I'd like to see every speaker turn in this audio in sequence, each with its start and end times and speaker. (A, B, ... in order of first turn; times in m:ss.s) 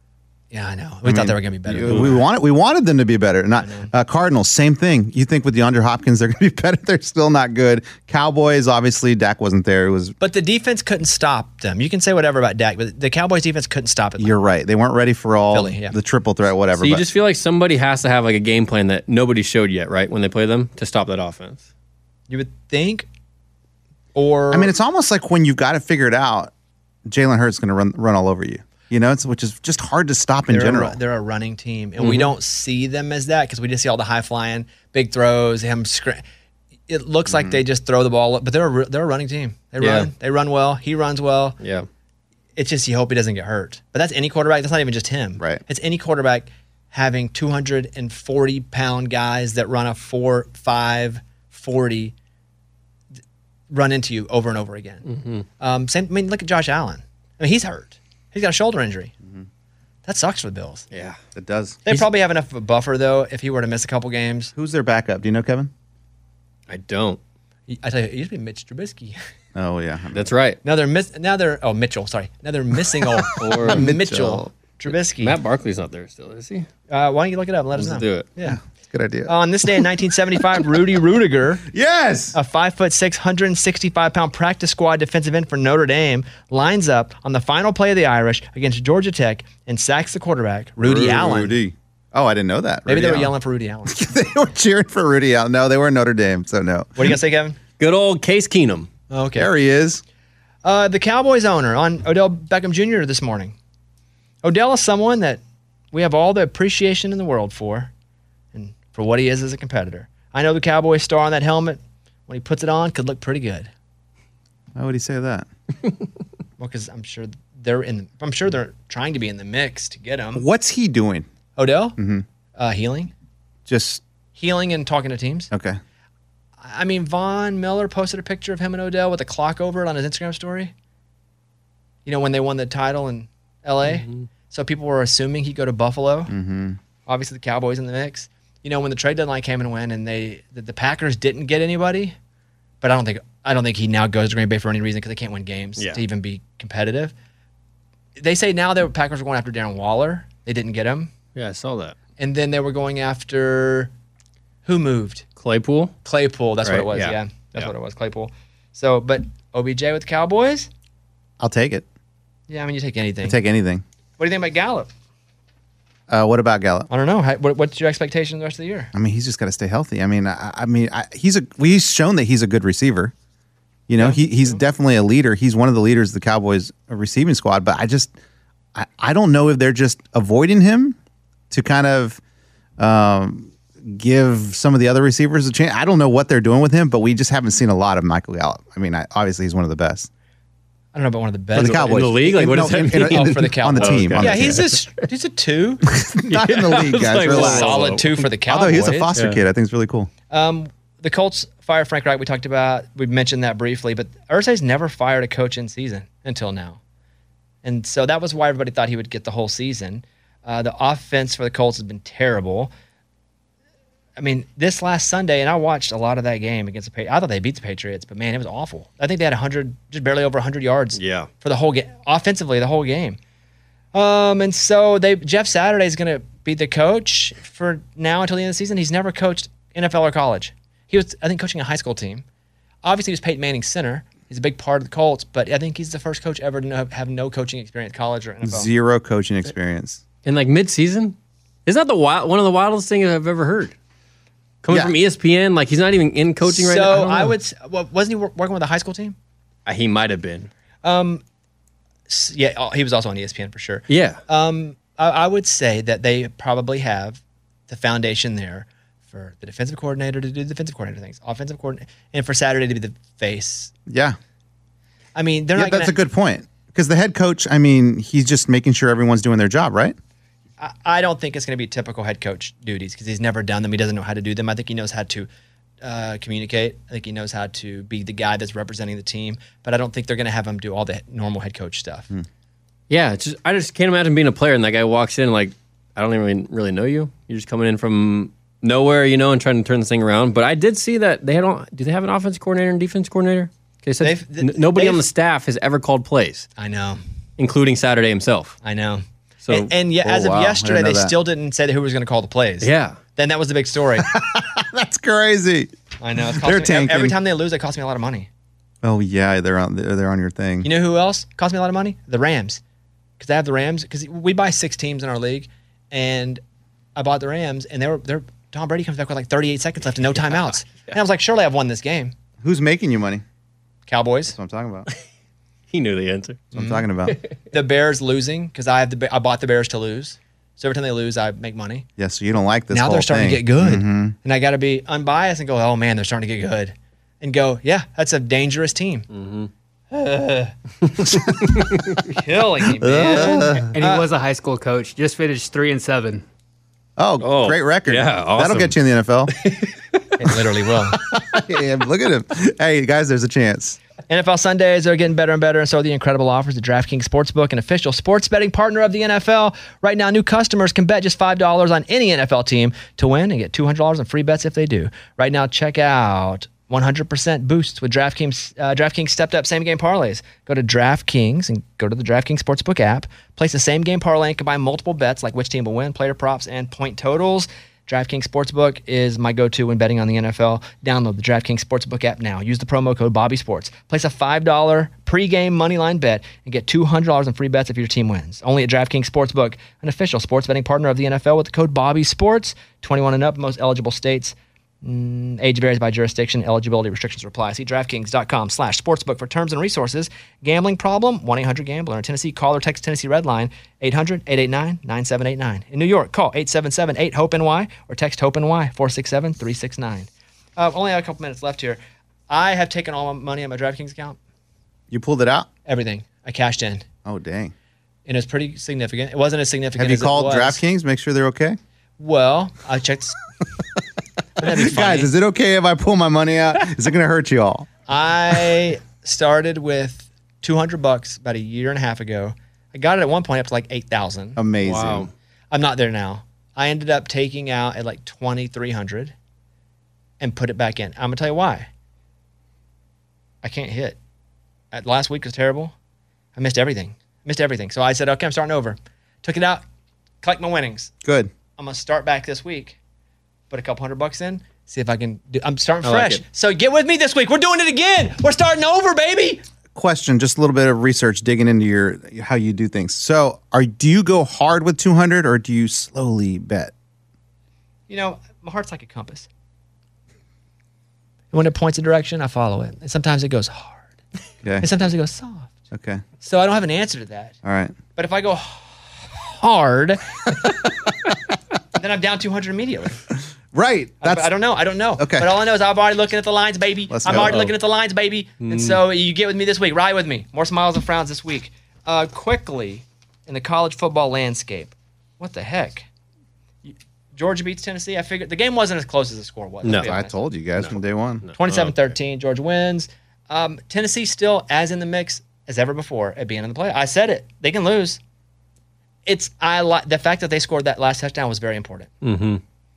0:00.5-0:02.2 A
0:01.0-0:10.2 B
0:01.8-0:02.2 C
0:03.6-0:03.9 A
0:10.2-0:14.4 A
0:14.2-0:17.1 B
0:15.5-0:16.0 A
0:16.7-0:21.6 C
0:22.3-0:23.1 A
0:24.2-0:24.7 A
0:24.5-0:26.5 B
0:27.1-0:31.0 B
0:30.5-0:36.2 A
0:32.0-0:32.3 C
0:36.9-0:41.6 A
0:37.3-0:37.6 B
0:39.8-0:40.1 C
0:41.6-0:41.9 C
0:42.6-0:52.1 A
0:53.7-0:55.1 A
0:55.1-0:55.4 C
0:55.6-0:59.1 A
1:00.0-1:00.9 A
1:00.9-1:01.2 C
1:01.4-1:01.8 B
1:01.8-1:04.5 A
1:04.6-1:05.7 B
1:06.7-1:07.2 C
1:07.7-1:09.2 A
1:09.6-1:10.3 B
1:10.1-1:10.6 C
1:10.6-1:15.4 A
1:13.0-1:14.5 B
1:13.4-1:13.9 C
1:14.9-1:16.7 C
1:16.9-1:18.6 A
1:17.8-1:18.3 C
1:18.4-1:19.4 B
1:19.2-1:21.7 A
1:21.7-1:22.4 B
1:22.3-1:31.6 A
1:30.8-1:33.3 B
1:32.9-1:34.0 A
1:33.9-1:37.1 B
1:37.0-1:37.6 A
1:37.8-1:38.9 C
1:39.1-1:39.5 A
1:39.4-1:40.0 B
1:40.6-1:43.6 A
1:44.4-1:45.4 A
1:45.9-1:47.9 A
1:48.5-1:53.7 A
1:54.8-1:55.5 B
1:56.6-2:00.5 A
2:00.4-2:01.3 B
2:01.6-2:02.0 A
2:02.0-2:02.2 B
2:02.6-2:03.1 A
2:03.7-2:04.0 B
2:04.4-2:05.5 A
2:05.5-2:05.8 B
2:06.6-2:10.7 A
2:12.0-2:16.3 A
2:13.9-2:14.2 C
2:16.3-2:16.8 B
2:17.1-2:22.2 A
2:22.8-2:27.1 A
2:28.2-2:31.1 A
2:31.4-2:32.0 C
2:32.2-2:33.9 A
2:34.6-2:35.2 A
2:35.4-2:36.0 C
2:36.0-2:40.7 A
2:36.6-2:37.7 C
2:41.4-2:41.9 B
2:42.5-2:43.4 A
2:43.2-2:43.8 B
2:44.2-2:44.9 A
2:46.1-2:46.9 B
2:46.9-2:48.9 A
2:48.9-2:53.1 B
2:53.9-2:58.1 B
2:54.0-2:54.6 A
2:58.7-3:01.0 B
3:01.5-3:02.2 B
3:02.8-3:10.1 B
3:10.9-3:15.8 A
3:11.6-3:14.7 B
3:11.6-3:14.9 C
3:15.9-3:17.9 B
3:16.2-3:18.3 C
3:17.2-3:19.2 A
3:18.5-3:20.1 B
3:19.1-3:19.4 C
3:20.3-3:26.8 A
3:27.6-3:32.7 A
3:34.2-3:43.2 A
3:41.0-3:41.3 C
3:43.9-3:52.2 A
3:52.8-3:58.7 A
3:58.4-4:00.0 B
4:00.2-4:03.7 C
4:04.6-4:07.4 C
4:04.7-4:05.0 B
4:06.4-4:09.2 A
4:09.7-4:10.5 C
4:10.8-4:11.2 A
4:12.1-4:23.7 A
4:13.9-4:14.2 C
4:23.9-4:24.2 B
4:25.2-4:26.0 A
4:25.6-4:30.0 B
4:30.6-4:35.3 A
4:35.8-4:42.1 A
4:42.9-4:56.5 C
4:54.0-4:55.0 A
4:56.6-4:57.0 A
4:57.4-4:58.6 C
4:58.6-5:04.1 A
4:59.4-4:59.7 C
5:00.0-5:01.2 B
5:02.6-5:03.0 C
5:04.0-5:07.2 B
5:06.0-5:08.3 A
5:08.8-5:10.7 B
5:10.6-5:12.6 A
5:13.2-5:16.4 A
5:17.0-5:22.2 A
5:20.2-5:20.9 C
5:22.4-5:23.2 B
5:23.9-5:24.4 A
5:24.3-5:24.9 B
5:25.7-5:26.4 C
5:26.5-5:26.9 A
5:26.5-5:27.2 B
5:27.5-5:31.9 A
5:32.0-5:34.2 B
5:32.7-5:39.1 A
5:39.1-5:39.5 C
5:39.9-5:40.5 A
5:40.9-5:42.0 C
5:41.1-5:41.6 B
5:42.0-5:44.1 A
5:42.8-5:43.8 B
5:43.4-5:46.2 D
5:47.0-5:49.3 B
5:47.2-5:48.8 C
5:49.3-5:50.5 C
5:50.2-5:51.0 A
5:51.1-5:53.8 B
5:54.1-6:54.2 A
6:54.9-6:55.5 B
6:55.6-6:56.9 A
6:57.0-6:57.5 B
6:58.1-7:00.6 A
6:59.8-7:01.6 B
7:02.0-7:03.2 A
7:04.4-7:05.1 A
7:04.4-7:07.7 B
7:07.9-7:14.4 A
7:14.4-7:15.1 B
7:14.6-7:15.1 C
7:15.5-7:19.1 A
7:20.2-7:21.7 A
7:23.4-7:24.0 A
7:24.7-7:25.7 A
7:26.4-7:29.6 A
7:30.2-7:30.9 A
7:31.0-7:31.3 B
7:31.6-7:32.8 A
7:33.5-7:39.4 A
7:35.8-7:36.2 C
7:39.7-7:46.7 B
7:47.9-7:49.3 A
7:51.3-7:53.9 A
7:54.4-7:54.7 B
7:54.6-7:55.6 A
7:55.7-7:56.0 B
7:56.2-7:57.4 A
7:57.4-7:57.8 B
7:57.9-8:00.3 A
8:01.8-8:03.0 A
8:03.5-8:04.3 B
8:04.0-8:15.9 A
8:05.0-8:05.3 B
8:06.9-8:07.5 B
8:07.1-8:07.5 C
8:08.4-8:08.8 C
8:16.6-8:20.2 A
8:19.6-8:19.9 C
8:19.8-8:21.3 B
8:21.2-8:21.9 C
8:21.4-8:28.0 A
8:29.1-8:31.9 A
8:32.0-8:32.4 C